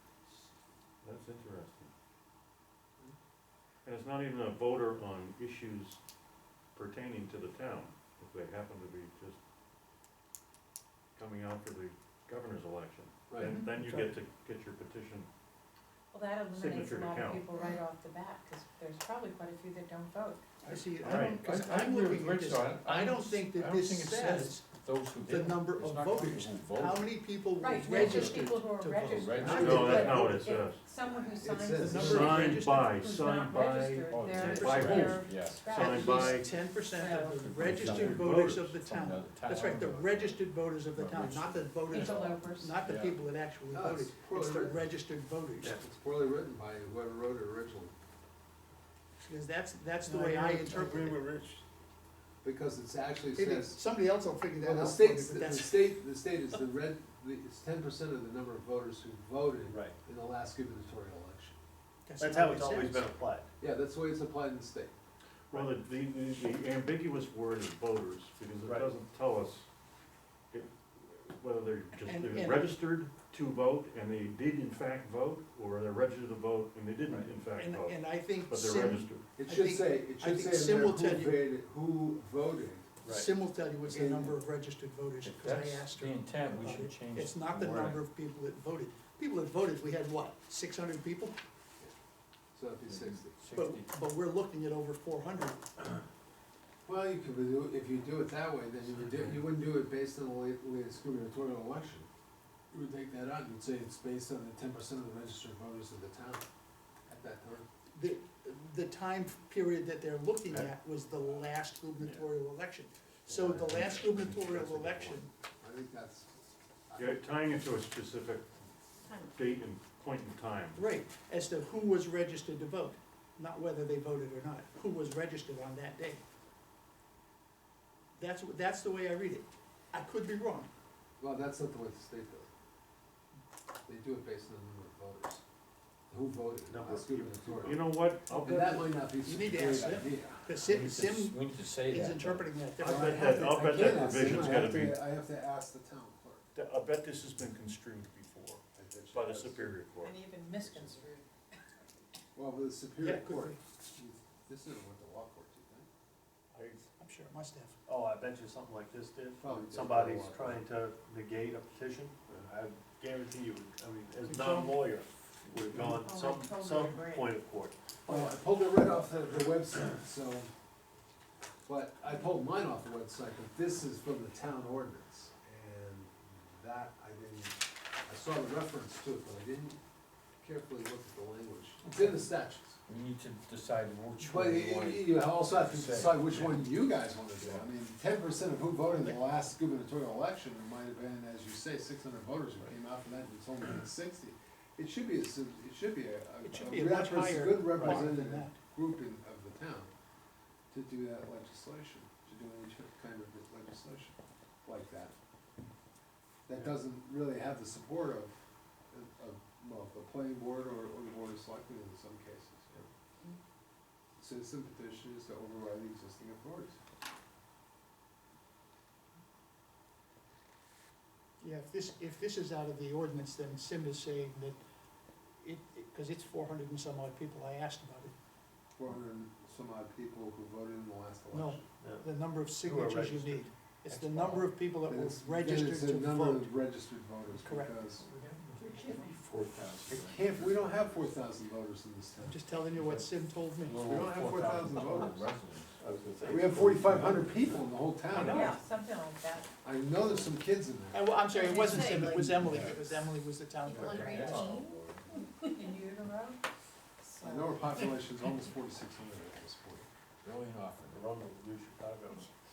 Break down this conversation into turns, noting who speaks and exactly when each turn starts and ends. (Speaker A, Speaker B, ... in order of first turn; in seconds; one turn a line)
Speaker A: 1.0-1.9
Speaker A: 3.8-6.0
Speaker A: 6.7-9.4
Speaker A: 11.1-15.3
Speaker B: 13.3-13.6
Speaker C: 13.7-14.1
Speaker D: 16.1-20.4
Speaker A: 16.5-17.4
Speaker C: 20.6-24.7
Speaker A: 21.0-21.4
Speaker E: 21.0-27.1
Speaker C: 25.2-30.5
Speaker D: 27.6-37.5
Speaker E: 27.9-28.4
Speaker E: 29.1-30.1
Speaker B: 29.4-32.5
Speaker A: 29.5-30.8
Speaker C: 31.7-32.9
Speaker A: 32.0-36.5
Speaker E: 34.1-36.4
Speaker C: 34.4-35.1
Speaker C: 35.7-45.8
Speaker E: 37.4-43.2
Speaker A: 37.5-38.7
Speaker D: 41.9-42.8
Speaker B: 43.7-44.8
Speaker B: 45.6-47.9
Speaker C: 49.2-51.2
Speaker F: 50.7-51.4
Speaker B: 50.7-51.4
Speaker B: 52.4-53.8
Speaker C: 53.3-56.0
Speaker B: 54.6-61.6
Speaker F: 59.7-60.0
Speaker C: 62.0-63.0
Speaker F: 62.2-63.5
Speaker B: 63.6-64.9
Speaker A: 65.5-69.7
Speaker A: 70.5-79.2
Speaker C: 71.9-72.8
Speaker C: 77.5-81.4
Speaker B: 79.3-83.0
Speaker F: 83.0-83.3
Speaker C: 83.1-91.3
Speaker B: 83.8-84.4
Speaker E: 85.2-88.0
Speaker B: 92.5-93.4
Speaker E: 92.8-93.9
Speaker C: 93.5-95.6
Speaker B: 96.8-102.1
Speaker B: 102.7-106.5
Speaker B: 107.1-107.7
Speaker C: 107.9-115.3
Speaker B: 113.3-117.2
Speaker A: 117.0-118.5
Speaker D: 119.0-119.3
Speaker A: 119.3-120.8
Speaker C: 120.7-126.2
Speaker C: 128.2-130.7
Speaker B: 131.2-132.5
Speaker B: 133.8-135.4
Speaker B: 136.1-140.5
Speaker F: 136.7-137.7
Speaker A: 137.6-139.0
Speaker C: 139.2-143.9
Speaker E: 140.6-142.5
Speaker A: 142.8-145.0
Speaker B: 142.8-146.4
Speaker A: 146.5-150.2
Speaker B: 148.8-149.8
Speaker D: 150.0-151.3
Speaker B: 152.3-155.9
Speaker C: 153.0-153.6
Speaker C: 157.0-157.8
Speaker F: 157.8-168.3
Speaker B: 159.4-160.6
Speaker C: 164.3-164.7
Speaker D: 165.8-167.3
Speaker B: 168.1-170.5
Speaker B: 171.6-179.8
Speaker B: 180.4-182.8
Speaker E: 182.9-187.7
Speaker B: 184.2-199.9
Speaker C: 196.4-198.6
Speaker F: 197.7-198.1
Speaker B: 200.7-205.1
Speaker B: 206.5-212.8
Speaker B: 214.2-216.8
Speaker C: 221.4-224.6
Speaker C: 225.4-228.1
Speaker B: 228.8-231.7
Speaker C: 231.3-236.6
Speaker F: 231.8-234.5
Speaker B: 234.8-238.1
Speaker C: 237.3-237.8
Speaker E: 238.2-240.1
Speaker D: 238.8-239.1
Speaker F: 239.2-240.5
Speaker B: 239.9-242.4
Speaker C: 242.2-243.9
Speaker E: 243.6-247.1
Speaker B: 243.8-245.2
Speaker F: 244.4-245.0
Speaker F: 245.8-247.0
Speaker B: 246.2-248.6
Speaker F: 248.1-248.6
Speaker E: 248.1-248.4
Speaker D: 248.2-249.5
Speaker B: 249.6-251.1
Speaker C: 250.9-254.3
Speaker D: 251.3-252.5
Speaker E: 252.3-252.9
Speaker D: 253.6-256.4
Speaker E: 253.6-255.1
Speaker D: 257.0-257.9
Speaker B: 257.2-259.9
Speaker E: 260.2-261.0
Speaker F: 260.9-262.3